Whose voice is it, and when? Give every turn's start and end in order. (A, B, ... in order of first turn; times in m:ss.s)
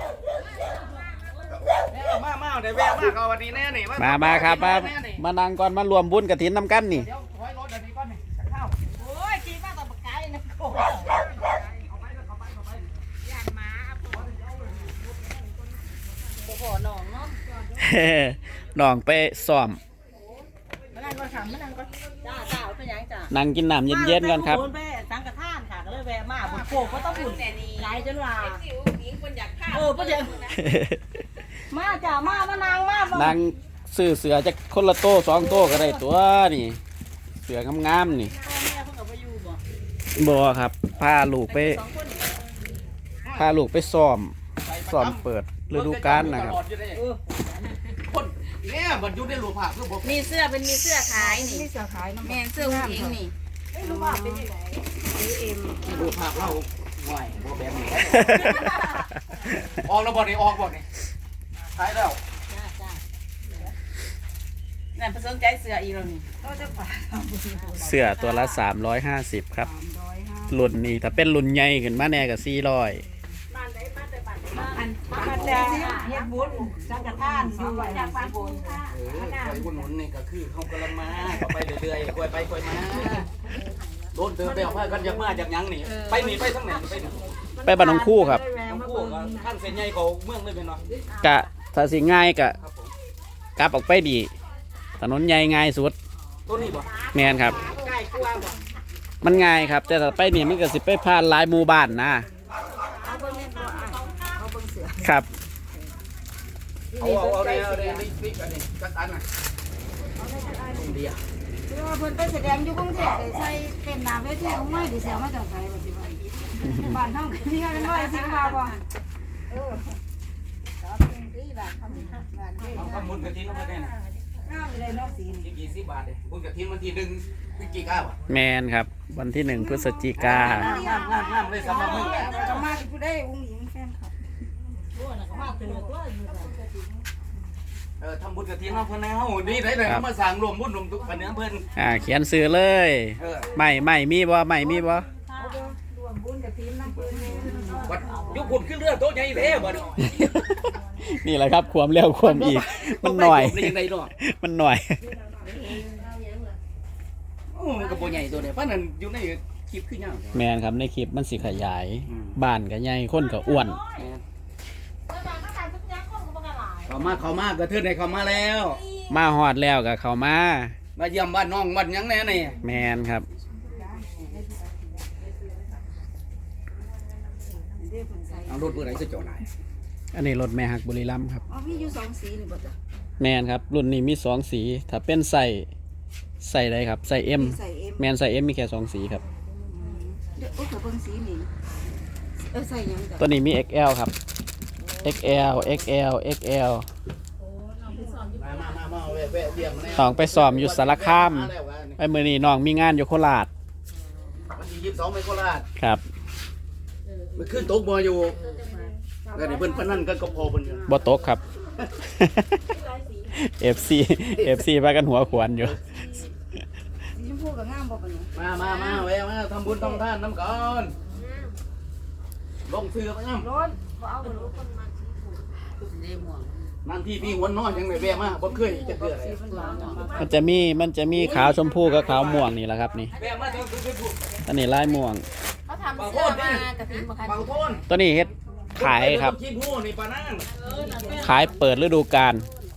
0:00.7-0:01.1 A
0:01.9-0:05.2 B
0:04.0-0:07.1 C
0:06.9-0:08.8 B
0:08.9-0:11.2 A
0:11.7-0:12.9 B
0:13.3-0:14.1 A
0:16.4-0:17.4 A
0:17.8-0:19.8 C
0:20.9-0:23.3 A
0:23.3-0:24.6 C
0:23.9-0:28.6 A
0:26.4-0:30.6 D
0:29.7-0:30.5 A
0:30.6-0:31.1 C
0:31.7-0:33.3 A
0:31.8-0:33.3 E
0:33.1-0:36.8 C
0:35.5-0:36.0 A
0:37.4-0:38.3 C
0:38.3-0:39.6 A
0:40.2-0:41.8 C
0:41.5-0:42.4 D
0:43.3-0:46.6 C
0:44.6-0:47.0 B
0:46.9-0:47.7 A
0:47.9-0:50.4 B
0:50.0-0:51.6 D
0:51.1-0:53.2 E
0:52.2-0:53.3 D
0:53.7-0:54.8 A
0:53.8-0:54.5 E
0:55.0-0:56.2 E
0:55.8-0:58.8 B
0:58.1-0:59.6 C
0:58.3-0:59.0 A
0:59.8-1:00.8 B
1:01.7-1:02.2 B
1:02.5-1:03.0 A
1:05.0-1:06.2 D
1:06.4-1:08.0 E
1:07.6-1:08.5 A
1:07.8-1:09.7 C
1:09.6-1:10.7 E
1:10.5-1:13.0 C
1:13.5-1:19.7 A
1:14.5-1:18.5 E
1:15.7-1:16.0 D
1:18.9-1:23.3 B
1:22.9-1:24.0 A
1:24.1-1:27.2 B
1:25.9-1:26.7 D
1:27.6-1:29.4 A
1:27.6-1:28.4 C
1:28.6-1:30.8 B
1:31.0-1:31.3 A
1:31.2-1:32.6 C
1:32.6-1:32.9 B
1:33.6-1:34.3 C
1:35.0-1:35.9 C
1:36.4-1:36.9 B
1:36.5-1:38.6 A
1:37.1-1:37.6 C
1:39.2-1:42.3 C
1:42.9-1:44.4 A
1:43.0-1:45.1 E
1:45.0-1:45.3 C
1:46.9-1:48.0 E
1:47.0-1:49.2 B
1:50.2-1:51.0 E
1:50.7-1:51.2 B
1:51.7-1:58.8 E
1:56.6-1:57.0 C
1:57.4-1:58.8 A
1:59.5-1:59.9 E
2:00.8-2:03.1 E
2:02.6-2:04.2 A
2:02.7-2:03.9 B
2:04.4-2:05.5 E
2:05.4-2:08.2 B
2:08.3-2:10.7 C
2:09.5-2:14.2 E
2:10.2-2:12.6 B
2:10.6-2:12.6 A
2:14.9-2:16.6 A
2:18.0-2:21.6 B
2:21.7-2:25.1 C
2:23.2-2:23.5 B
2:24.6-2:25.6 A
2:25.4-2:28.4 E
2:27.1-2:30.0 A
2:27.8-2:30.2 B
2:30.0-2:35.0 C
2:32.2-2:34.1 B
2:35.4-2:35.8 E
2:36.0-2:36.5 A
2:37.5-2:40.4 B
2:37.8-2:38.2 A
2:40.3-2:43.8 C
2:42.1-2:42.3 B
2:43.2-2:44.0 A
2:43.9-2:44.2 B
2:45.1-2:47.2 A
2:46.9-2:48.8 B
2:48.5-2:49.0 A
2:49.1-2:50.7 C
2:51.0-2:52.6 B
2:52.6-2:53.2 C
2:53.6-2:54.3 E
2:57.8-2:58.8 E
2:58.5-2:59.4 B
3:00.1-3:01.4 C
3:01.5-3:02.7 E
3:03.2-3:05.7 C
3:06.4-3:09.2 C
3:07.3-3:08.1 E
3:09.7-3:11.5 E
3:12.4-3:13.3 E
3:13.2-3:14.1 C
3:15.0-3:16.8 C
3:17.5-3:19.6 A
3:18.4-3:22.0 B
3:19.9-3:23.5 C
3:24.5-3:25.7 B
3:27.1-3:27.4 A
3:27.4-3:28.4 B
3:28.2-3:28.9 A
3:28.4-3:28.8 D
3:29.2-3:30.8 E
3:29.3-3:30.8 B
3:30.9-3:31.4 C
3:32.0-3:32.6 C
3:32.7-3:33.2 A
3:33.3-3:35.8 C
3:34.3-3:34.6 B
3:37.1-3:38.3 E
3:38.3-3:40.9 B
3:38.6-3:39.0 D
3:39.6-3:40.0 E
3:41.2-3:41.5 D
3:42.6-3:43.5 B
3:43.4-3:44.6 E
3:44.4-3:45.2 A
3:45.8-3:46.5 D
3:46.8-3:49.4 B
3:47.6-3:50.1 E
3:49.5-3:50.2 D
3:49.5-3:50.5 A
3:50.2-3:53.1 C
3:51.1-3:52.5 B
3:53.1-3:53.6 A
3:53.1-3:54.2 B
3:54.4-3:55.2 C
3:55.6-3:57.8 D
3:55.9-3:56.7 B
3:57.2-3:57.8 B
3:57.9-3:59.4 C
3:58.7-4:00.5 B
4:00.5-4:01.6 A
4:00.6-4:01.8 D
4:01.1-4:02.5 C